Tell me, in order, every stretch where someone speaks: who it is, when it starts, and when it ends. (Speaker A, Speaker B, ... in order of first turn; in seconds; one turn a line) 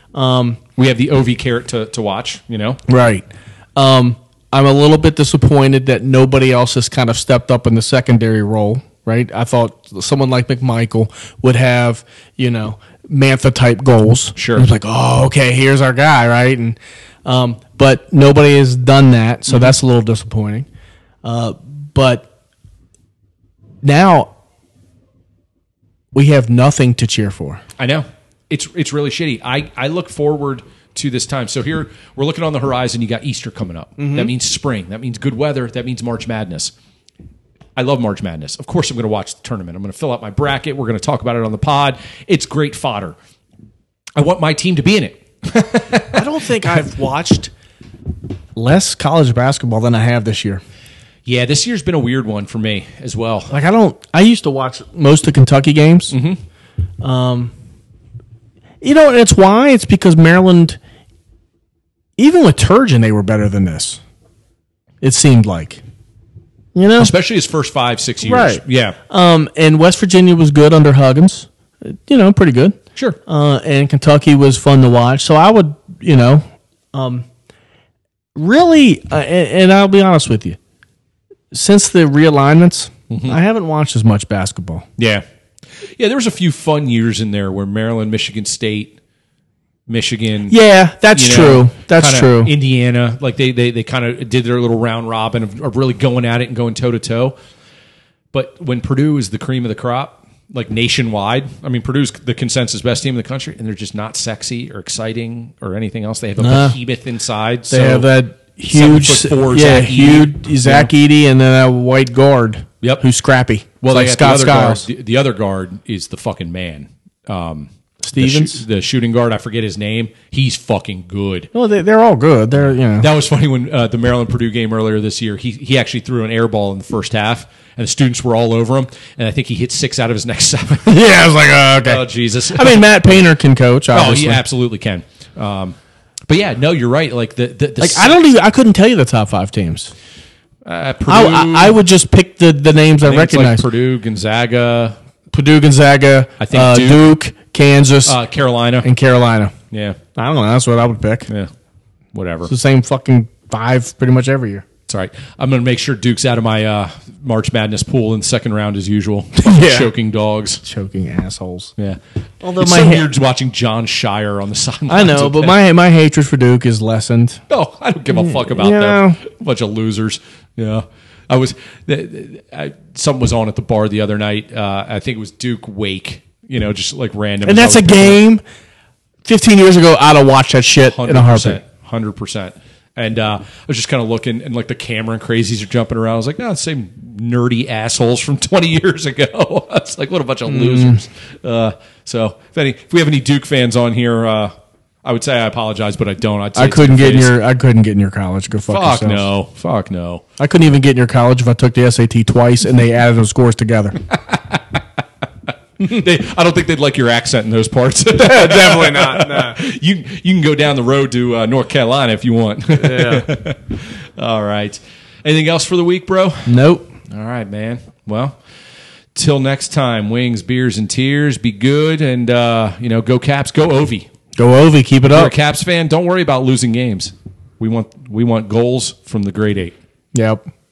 Speaker A: 0.1-0.6
Speaker B: 0.8-2.8
Speaker A: 2.9-20.7
Speaker B: 14.4-14.7
Speaker B: 19.5-19.7
Speaker A: 21.2-22.3
Speaker A: 23.8-24.3
Speaker A: 26.1-27.6
Speaker B: 27.8-36.7
Speaker A: 34.0-34.3
Speaker B: 37.8-43.2
Speaker B: 44.2-46.3
Speaker A: 46.1-47.5
Speaker A: 48.6-50.6
Speaker B: 51.3-53.5
Speaker A: 53.5-56.1
Speaker B: 56.1-56.4
Speaker A: 57.0-57.5
Speaker A: 58.8-60.8
Speaker A: 62.2-64.0
Speaker A: 65.0-65.8
Speaker A: 66.8-67.1
Speaker B: 67.0-69.0
Speaker A: 68.2-77.3
Speaker A: 78.3-80.6
Speaker A: 81.5-84.9
Speaker B: 83.1-83.4
Speaker B: 85.0-85.2
Speaker B: 85.8-89.0
Speaker B: 89.9-90.6
Speaker A: 90.5-92.5
Speaker B: 91.1-97.3
Speaker B: 98.3-108.1
Speaker A: 106.4-106.8
Speaker A: 107.7-114.8
Speaker B: 108.7-110.9
Speaker B: 113.8-121.5
Speaker A: 118.0-118.6
Speaker A: 121.5-123.1
Speaker B: 123.0-133.2
Speaker A: 130.9-134.4
Speaker B: 133.9-135.8
Speaker B: 136.3-138.2
Speaker A: 137.8-139.9
Speaker B: 140.7-141.8
Speaker A: 141.1-143.7
Speaker B: 143.0-145.0
Speaker A: 145.3-148.2
Speaker B: 146.4-147.1
Speaker B: 148.1-148.9
Speaker A: 148.8-149.5
Speaker B: 149.7-150.0
Speaker A: 150.2-151.3
Speaker B: 152.1-152.5
Speaker A: 152.5-154.7
Speaker B: 154.9-160.6
Speaker A: 159.4-159.9
Speaker A: 160.6-161.7
Speaker A: 162.4-163.1
Speaker B: 162.6-165.6
Speaker A: 164.9-167.4
Speaker B: 167.5-178.2
Speaker A: 168.1-169.2
Speaker A: 177.4-178.4
Speaker A: 179.3-181.6
Speaker B: 180.8-194.5
Speaker A: 190.5-191.0
Speaker B: 195.0-197.4
Speaker A: 196.6-199.3
Speaker B: 198.7-200.2
Speaker A: 200.4-204.0
Speaker B: 204.1-204.8
Speaker B: 205.8-216.6
Speaker A: 208.1-209.6
Speaker A: 212.8-213.3
Speaker A: 216.5-216.9
Speaker B: 217.1-218.4
Speaker B: 219.2-224.1
Speaker A: 224.4-225.3
Speaker B: 225.1-229.7
Speaker A: 230.1-230.5